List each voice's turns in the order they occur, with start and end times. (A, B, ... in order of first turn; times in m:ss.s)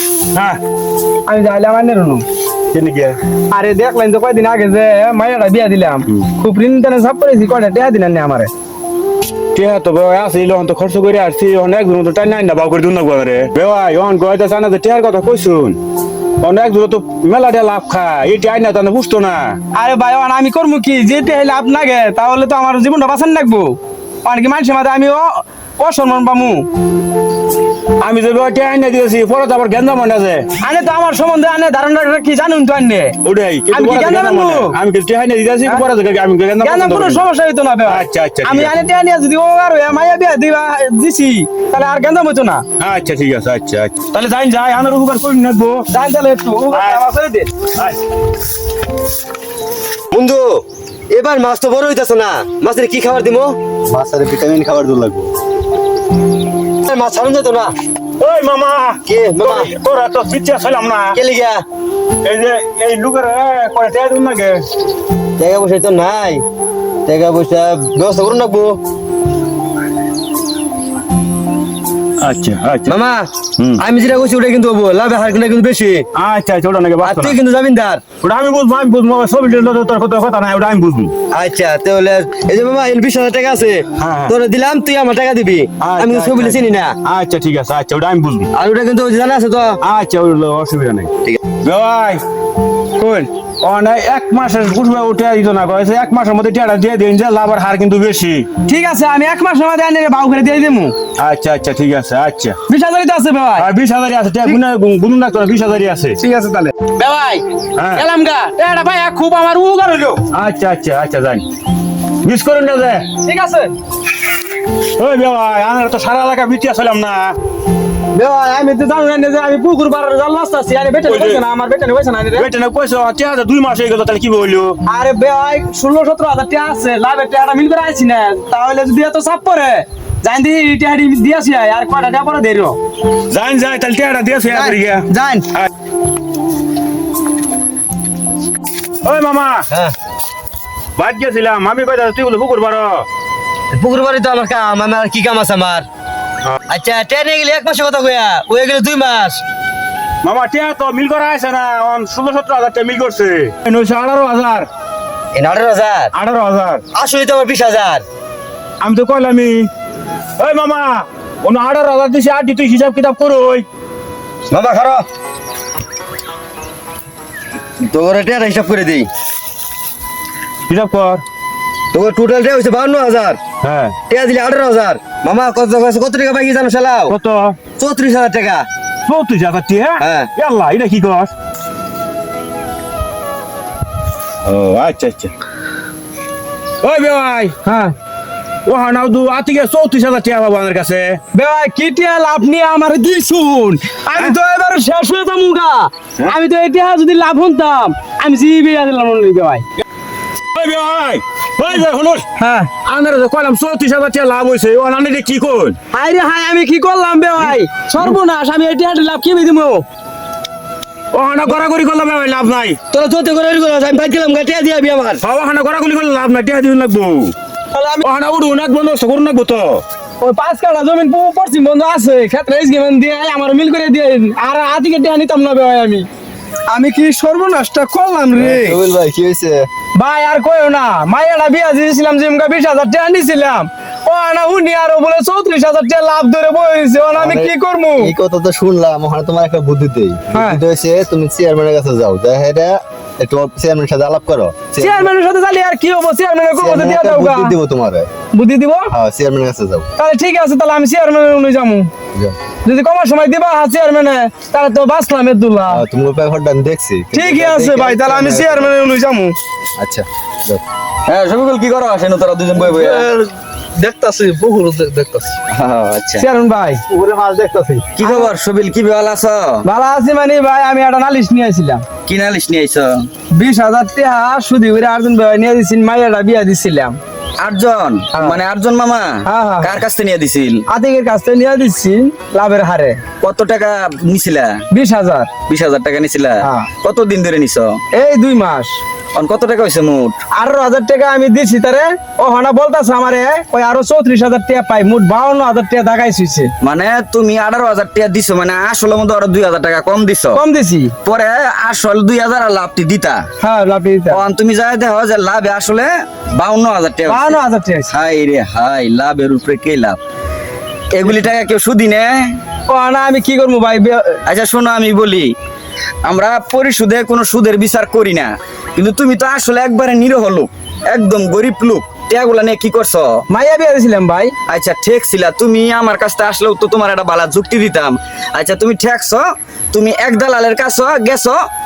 0:00.3-0:00.6 A
0:01.3-0:02.2 B
0:02.7-0:03.2 A
0:03.5-0:08.5 B
0:09.6-0:15.8 A
0:16.4-0:19.6 A
0:19.7-0:26.7 B
0:28.0-0:30.5 A
0:30.6-0:33.2 B
0:33.2-0:37.3 A
0:33.7-0:34.8 B
0:36.6-0:42.6 B
0:37.9-0:38.7 A
0:42.8-0:45.9 A
0:45.9-0:47.5 B
0:46.7-0:47.0 A
0:50.1-0:53.6 C
0:53.9-0:55.3 D
0:56.8-0:57.7 C
0:58.2-1:01.2 A
0:59.1-0:59.7 C
1:01.1-1:01.6 C
1:02.2-1:04.6 A
1:05.4-1:06.4 C
1:07.1-1:08.8 C
1:12.2-1:13.0 A
1:12.9-1:13.3 C
1:13.6-1:13.8 A
1:13.8-1:16.0 C
1:16.1-1:17.4 A
1:17.0-1:18.0 C
1:18.2-1:21.1 A
1:21.3-1:27.0 C
1:24.0-1:24.4 A
1:25.8-1:28.5 A
1:28.5-1:29.8 C
1:29.8-1:32.2 A
1:33.0-1:33.3 B
1:33.6-1:38.5 A
1:38.6-1:41.0 B
1:41.2-1:42.6 A
1:42.7-1:43.7 B
1:43.6-1:46.2 A
1:46.2-1:50.2 B
1:47.8-1:48.0 A
1:50.3-1:51.4 A
1:52.2-1:53.1 A
1:53.2-1:53.8 B
1:55.0-1:57.4 A
1:58.1-2:02.5 B
2:01.1-2:01.4 A
2:02.4-2:04.8 A
2:04.9-2:12.8 B
2:13.3-2:15.7 A
2:14.5-2:15.5 B
2:19.0-2:19.7 A
2:21.0-2:23.0 A
2:23.7-2:25.9 C
2:26.7-2:29.4 C
2:30.2-2:34.7 A
2:35.3-2:36.1 C
2:36.1-2:36.8 A
2:36.9-2:38.0 C
2:38.8-2:39.7 A
2:40.4-2:43.7 A
2:44.5-2:45.1 C
2:47.8-2:49.1 C
2:50.7-2:51.2 A
2:51.9-2:53.4 C
2:53.6-2:54.0 A
2:54.1-2:57.2 C
2:57.1-2:57.6 A
2:57.7-2:58.7 C
2:59.1-3:01.3 A
3:00.0-3:00.3 C
3:04.4-3:05.3 A
3:06.8-3:07.6 A
3:07.6-3:07.9 B
3:08.7-3:11.2 A
3:11.3-3:19.6 B
3:20.5-3:22.2 A
3:22.4-3:22.7 B
3:22.8-3:25.8 A
3:25.9-3:29.8 B
3:27.4-3:28.2 A
3:31.1-3:32.8 A
3:32.9-3:35.2 C
3:35.2-3:37.4 A
3:37.7-3:38.1 B
3:38.0-3:39.8 A
3:40.2-3:46.1 B
3:46.7-3:48.8 B
3:48.4-3:49.7 D
3:50.0-3:58.1 B
3:57.2-4:05.1 D
4:00.3-4:00.6 B
4:04.8-4:07.6 B
4:06.6-4:08.1 D
4:08.3-4:08.9 B
4:08.9-4:09.9 D
4:10.0-4:11.9 B
4:12.6-4:15.8 B
4:15.7-4:18.8 D
4:17.1-4:19.3 B
4:19.8-4:20.6 D
4:21.1-4:23.1 E
4:22.7-4:23.1 D
4:23.8-4:25.3 D
4:25.5-4:26.3 E
4:26.2-4:26.8 B
4:26.9-4:27.9 D
4:28.0-4:29.6 E
4:28.0-4:28.3 B
4:29.6-4:31.8 B
4:32.1-4:33.1 E
4:33.3-4:37.0 B
4:37.4-4:40.6 E
4:39.3-4:39.8 B
4:40.7-4:43.0 B
4:43.2-4:44.6 E
4:44.7-4:45.3 B
4:45.5-4:47.8 E
4:46.4-4:46.7 B
4:47.9-4:48.8 B
4:49.2-4:50.2 E
4:50.4-4:56.5 B
4:56.6-5:00.4 E
5:00.3-5:00.9 B
5:01.0-5:03.2 E
5:03.4-5:04.2 B
5:04.1-5:07.4 E
5:07.1-5:07.9 B
5:07.9-5:10.0 E
5:10.9-5:12.4 E
5:12.7-5:14.2 B
5:14.3-5:15.3 E
5:16.0-5:23.2 E
5:23.3-5:24.3 B
5:24.5-5:31.4 E